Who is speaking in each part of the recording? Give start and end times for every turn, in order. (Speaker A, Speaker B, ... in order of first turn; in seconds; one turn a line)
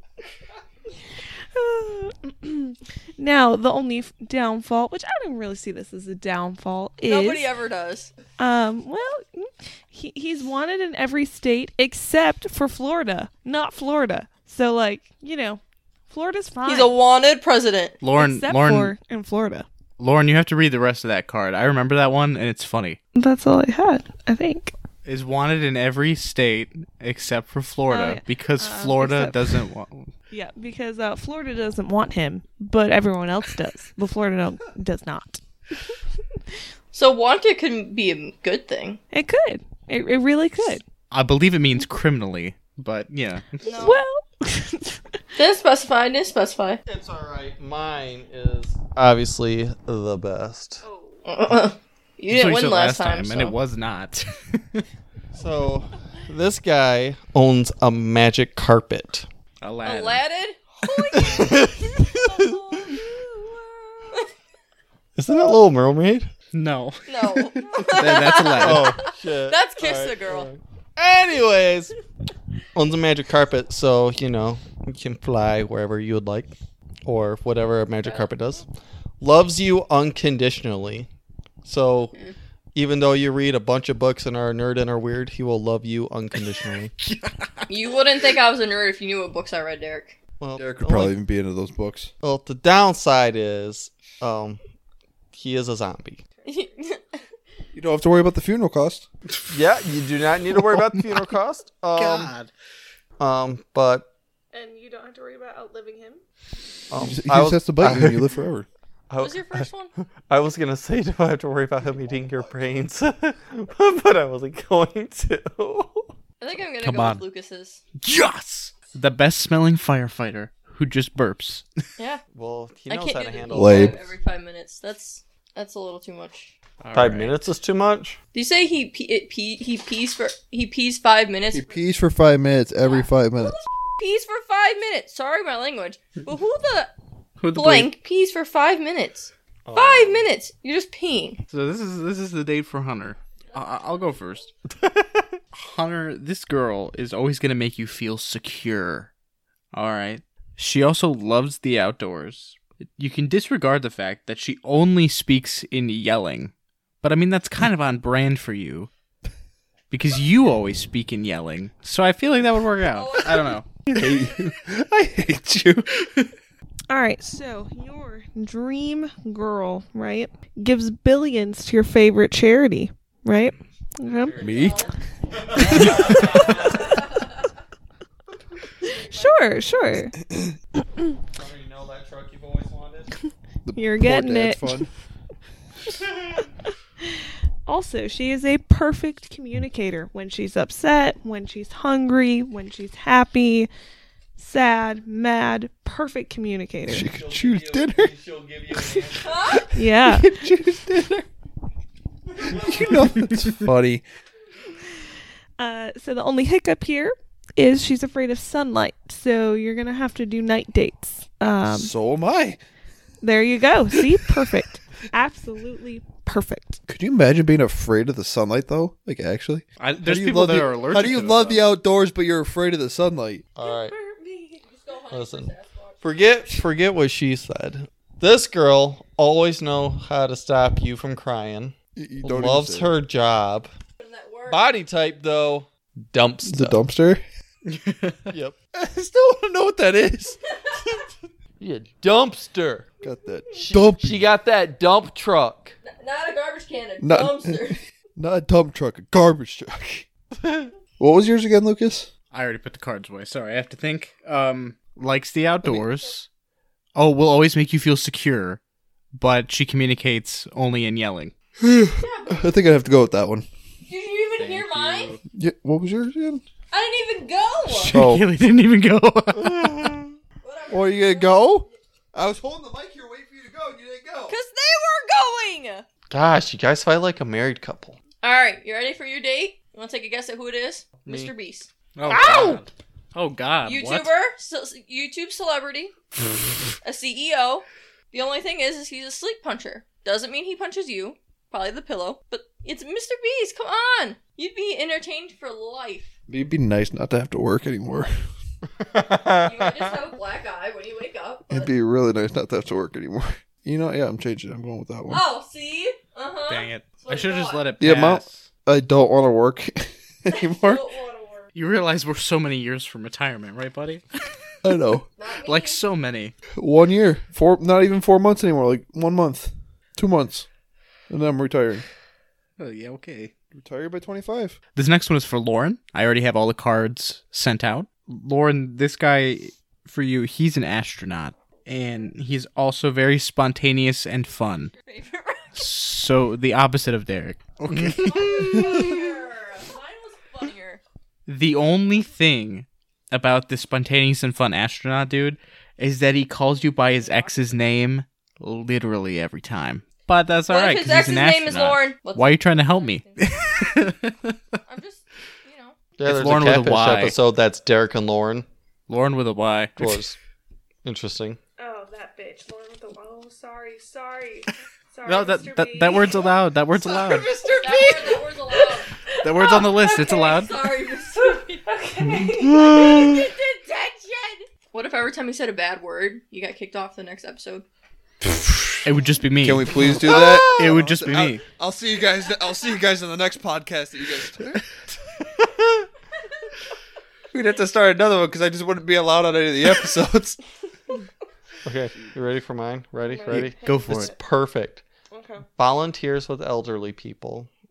Speaker A: 1.5-7.5
Speaker B: 7.0-8.1
Speaker A: 8.4-16.9
Speaker B: 16.6-18.0
Speaker C: 18.0-18.9
Speaker A: 18.1-19.6
Speaker C: 20.0-23.0
Speaker A: 23.1-24.7
Speaker C: 25.0-30.1
Speaker A: 27.9-29.6
Speaker A: 30.3-35.4
Speaker B: 36.9-39.0
Speaker A: 39.1-40.8
Speaker C: 41.1-43.8
Speaker B: 43.6-44.0
Speaker A: 43.7-45.0
Speaker B: 45.4-46.8
Speaker D: 46.9-50.8
Speaker A: 50.9-51.2
Speaker B: 51.2-53.5
Speaker C: 52.3-54.8
Speaker D: 55.3-59.3
Speaker C: 59.6-60.2
Speaker B: 59.8-64.3
Speaker D: 61.1-63.0
Speaker D: 65.2-66.3
Speaker C: 66.5-69.0
Speaker B: 67.1-70.5
Speaker D: 68.5-71.9
Speaker D: 72.7-76.5
Speaker D: 77.0-78.7
Speaker D: 79.2-81.1
Speaker D: 81.6-82.1
Speaker D: 82.7-86.9
Speaker C: 87.0-87.7
Speaker B: 87.7-90.2
Speaker D: 90.4-91.1
Speaker E: 90.5-92.1
Speaker D: 92.2-94.6
Speaker D: 95.3-96.2
Speaker B: 96.5-97.2
Speaker E: 97.7-99.0
Speaker D: 99.5-102.3
Speaker C: 100.6-101.2
Speaker C: 101.9-102.5
Speaker D: 103.2-104.1
Speaker A: 104.5-106.2
Speaker D: 106.9-108.3
Speaker E: 107.0-108.7
Speaker D: 109.1-116.1
Speaker B: 109.2-109.9
Speaker B: 116.4-117.8
Speaker C: 116.8-117.2
Speaker E: 116.8-117.2
Speaker C: 118.0-121.7
Speaker D: 122.3-124.1
Speaker B: 122.9-126.5
Speaker E: 123.5-124.0
Speaker C: 126.8-127.4
Speaker D: 126.9-128.2
Speaker B: 128.3-131.8
Speaker E: 131.5-133.6
Speaker B: 132.8-136.9
Speaker C: 137.4-137.9
Speaker B: 137.5-141.4
Speaker D: 139.7-140.3
Speaker C: 141.5-144.5
Speaker D: 144.7-145.4
Speaker C: 145.5-149.1
Speaker C: 149.7-158.9
Speaker C: 159.9-164.1
Speaker B: 162.9-163.6
Speaker E: 163.9-165.9
Speaker C: 166.0-166.3
Speaker A: 166.9-174.4
Speaker D: 174.0-176.9
Speaker B: 174.4-174.9
Speaker C: 174.4-174.8
Speaker B: 175.5-177.3
Speaker C: 175.6-176.0
Speaker A: 178.8-180.2
Speaker B: 178.8-179.6
Speaker D: 181.3-183.1
Speaker E: 183.7-184.9
Speaker A: 183.7-184.9
Speaker A: 187.0-193.7
Speaker A: 194.4-197.1
Speaker E: 196.8-198.1
Speaker D: 196.9-199.7
Speaker B: 199.2-199.7
Speaker A: 199.6-200.5
Speaker E: 200.0-201.3
Speaker E: 202.4-204.0
Speaker C: 203.2-203.6
Speaker A: 205.6-211.9
Speaker E: 211.7-212.6
Speaker A: 213.2-216.8
Speaker E: 216.9-223.4
Speaker C: 219.8-221.7
Speaker D: 223.6-223.9
Speaker A: 223.6-224.6
Speaker B: 224.6-226.0
Speaker D: 225.1-233.7
Speaker E: 231.9-232.9
Speaker B: 234.0-234.7
Speaker D: 234.5-236.8
Speaker E: 236.4-237.2
Speaker C: 237.7-238.3
Speaker D: 238.3-238.6
Speaker E: 238.7-240.4
Speaker D: 241.6-242.9
Speaker E: 243.0-244.3
Speaker D: 243.5-245.8
Speaker B: 245.8-247.8
Speaker E: 247.0-250.1
Speaker D: 250.4-250.7
Speaker E: 251.0-252.1
Speaker C: 252.3-256.3
Speaker C: 256.9-258.6
Speaker C: 259.1-261.3
Speaker E: 261.6-263.5
Speaker B: 261.9-262.5
Speaker B: 263.9-265.1
Speaker C: 264.4-265.2
Speaker E: 265.3-266.4
Speaker B: 266.7-267.9
Speaker C: 267.8-269.9
Speaker E: 267.8-268.2
Speaker E: 269.4-270.1
Speaker B: 270.4-271.7
Speaker E: 270.7-274.4
Speaker B: 274.3-275.9
Speaker D: 276.1-278.0
Speaker B: 278.2-281.7
Speaker D: 281.0-281.3
Speaker C: 281.9-284.1
Speaker A: 282.1-282.6
Speaker B: 283.6-285.9
Speaker B: 286.8-296.1
Speaker E: 296.3-298.1
Speaker D: 298.8-299.9
Speaker B: 299.4-301.7
Speaker E: 301.5-305.2
Speaker B: 305.1-307.6
Speaker C: 306.5-308.5
Speaker E: 307.8-310.8
Speaker B: 310.3-311.5
Speaker C: 311.5-314.0
Speaker E: 314.6-315.1
Speaker B: 315.2-315.8
Speaker C: 315.3-316.3
Speaker E: 316.6-320.5
Speaker E: 321.1-321.8
Speaker C: 322.6-323.3
Speaker E: 323.5-324.6
Speaker C: 324.7-334.7
Speaker B: 334.7-335.6
Speaker C: 335.5-339.0
Speaker B: 337.9-340.8
Speaker C: 341.3-354.6
Speaker B: 346.7-347.6
Speaker B: 350.5-353.4
Speaker B: 354.6-355.8
Speaker D: 356.0-358.4
Speaker C: 356.0-357.2
Speaker C: 358.9-360.0
Speaker D: 359.8-360.1
Speaker D: 360.8-361.4
Speaker A: 361.6-366.4
Speaker C: 365.1-367.3
Speaker E: 367.1-368.1
Speaker B: 367.4-371.6
Speaker A: 368.7-370.3
Speaker C: 369.2-370.6
Speaker A: 371.1-372.7
Speaker B: 372.4-377.6
Speaker C: 372.5-373.1
Speaker C: 378.8-381.4
Speaker E: 379.4-384.6
Speaker E: 387.3-390.4
Speaker D: 391.6-394.8
Speaker A: 393.0-394.2
Speaker C: 393.3-394.1
Speaker A: 395.1-395.5
Speaker D: 395.6-397.5